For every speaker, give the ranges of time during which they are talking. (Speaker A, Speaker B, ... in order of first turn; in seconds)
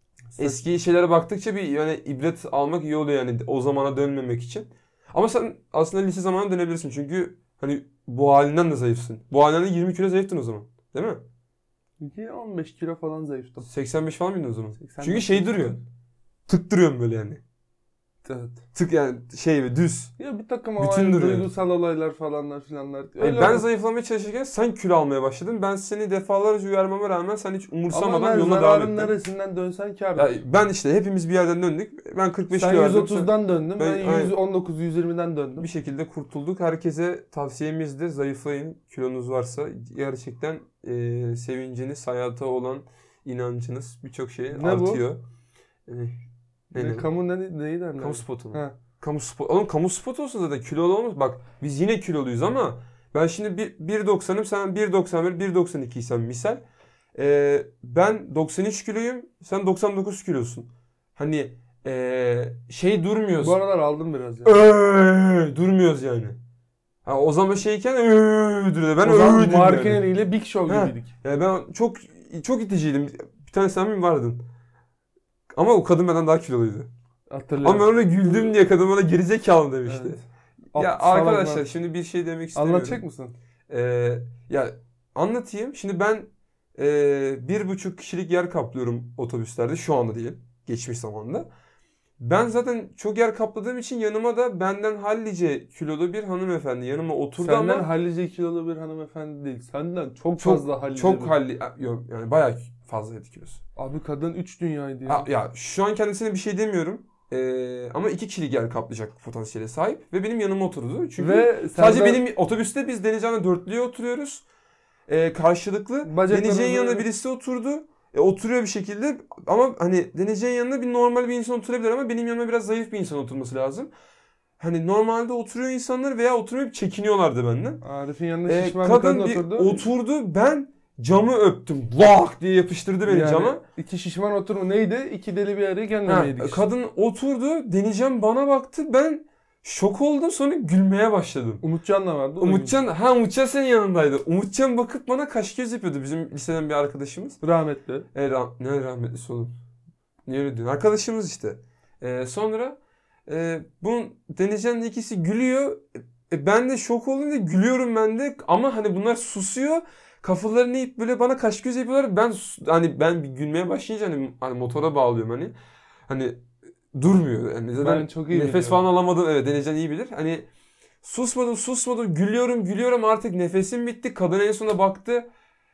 Speaker A: 0.3-0.8, 12.0-13.7, 14.8-15.8, 18.2-18.6, 20.2-23.7, 27.9-30.4, 32.5-35.7, 44.5-45.0, 46.8-48.8, 63.4-64.6, 69.0-71.1, 77.3-78.5, 79.9-80.2, 80.7-81.7, 82.5-83.3, 97.4-101.3, 103.8-105.3, 111.2-112.2, 116.0-117.1, 127.8-129.9, 133.1-136.7, 141.6-142.8, 147.4-148.1, 167.8-168.8
Speaker B: 0.4-11.2, 13.7-15.8, 16.5-17.4, 18.7-20.1, 20.8-21.5, 23.2-29.1, 30.2-34.4, 35.6-45.2, 45.9-46.2, 46.7-47.1, 48.0-56.6, 57.1-63.6, 64.5-66.4, 67.0-70.1, 70.7-74.4, 75.5-76.9, 77.6-83.0, 83.7-91.5, 92.2-97.9, 100.4-103.6, 105.1-114.5, 115.1-123.9, 124.6-127.8, 128.5-133.6, 136.1-141.6, 142.4-147.4, 148.1-149.5, 150.3-165.5, 166.1-170.5, 171.0-175.3